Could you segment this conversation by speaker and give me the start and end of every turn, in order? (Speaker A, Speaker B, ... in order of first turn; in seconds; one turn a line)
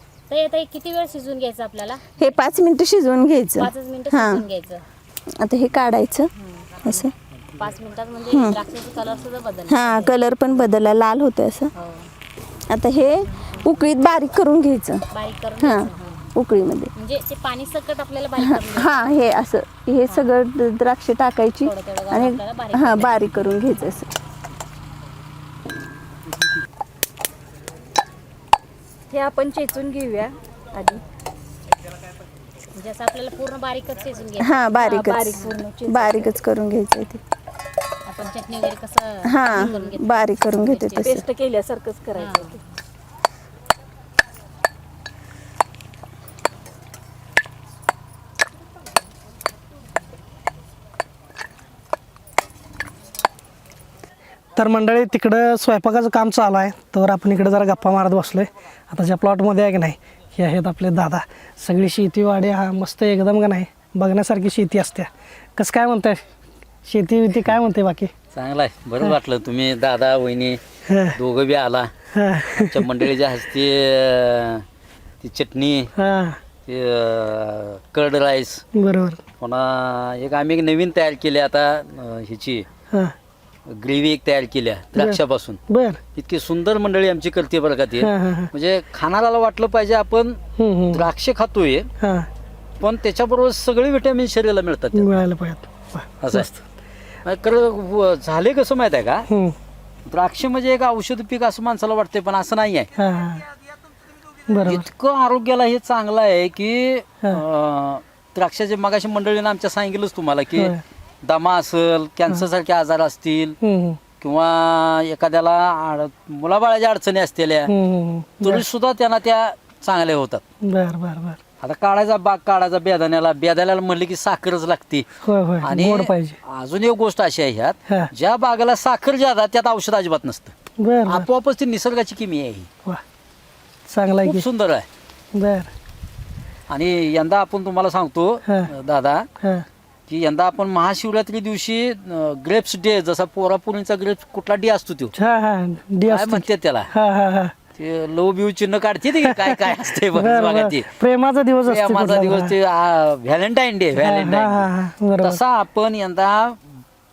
Speaker A: 0.3-2.0
Speaker B: 2.2-4.4
Speaker A: 3.6-4.8
Speaker B: 5.4-6.3
Speaker A: 6.4-7.0
Speaker B: 6.8-7.1
Speaker A: 7.6-10.2
Speaker B: 8.3-8.6
Speaker B: 9.7-11.7
Speaker A: 11.8-12.1
Speaker B: 12.7-15.0
Speaker A: 15.1-16.3
Speaker B: 15.6-16.9
Speaker A: 17.0-19.1
Speaker B: 18.4-24.1
Speaker A: 21.6-23.2
Speaker C: 29.1-31.0
Speaker A: 32.8-34.7
Speaker B: 34.4-37.2
Speaker C: 34.9-36.2
Speaker A: 35.3-35.6
Speaker A: 38.1-41.2
Speaker B: 39.3-41.2
Speaker C: 41.2-42.3
Speaker A: 42.1-42.6
Speaker D: 54.6-66.2
Speaker D: 66.9-68.1
Speaker E: 68.3-70.6
Speaker D: 70.9-71.2
Speaker E: 71.1-71.9
Speaker D: 72.1-72.9
Speaker E: 72.5-74.7
Speaker E: 75.2-75.9
Speaker D: 76.0-76.4
Speaker E: 76.7-78.6
Speaker D: 78.7-79.2
Speaker E: 79.4-82.7
Speaker E: 83.7-85.6
Speaker D: 85.0-86.0
Speaker E: 86.2-90.4
Speaker D: 88.0-88.5
Speaker D: 90.6-91.0
Speaker E: 90.9-91.9
Speaker D: 92.0-92.3
Speaker E: 92.8-95.1
Speaker D: 94.9-96.6
Speaker E: 96.2-96.5
Speaker E: 97.2-99.3
Speaker D: 99.3-99.5
Speaker E: 100.1-102.9
Speaker D: 103.0-103.5
Speaker D: 104.5-104.9
Speaker E: 104.7-113.6
Speaker D: 110.6-110.8
Speaker D: 113.6-114.0
Speaker E: 114.2-117.7
Speaker D: 117.7-118.7
Speaker E: 118.4-120.4
Speaker D: 120.6-121.4
Speaker E: 121.6-125.1
Speaker D: 125.2-126.4
Speaker E: 125.6-130.5
Speaker D: 130.8-131.3
Speaker E: 131.1-132.7
Speaker D: 133.9-134.4
Speaker E: 134.2-134.9
Speaker D: 135.3-135.7
Speaker E: 136.7-139.3
Speaker E: 140.1-145.1
Speaker D: 145.2-147.5
Speaker E: 146.1-146.9
Speaker E: 147.8-150.9
Speaker D: 149.3-152.5
Speaker E: 151.7-156.6
Speaker D: 154.0-155.4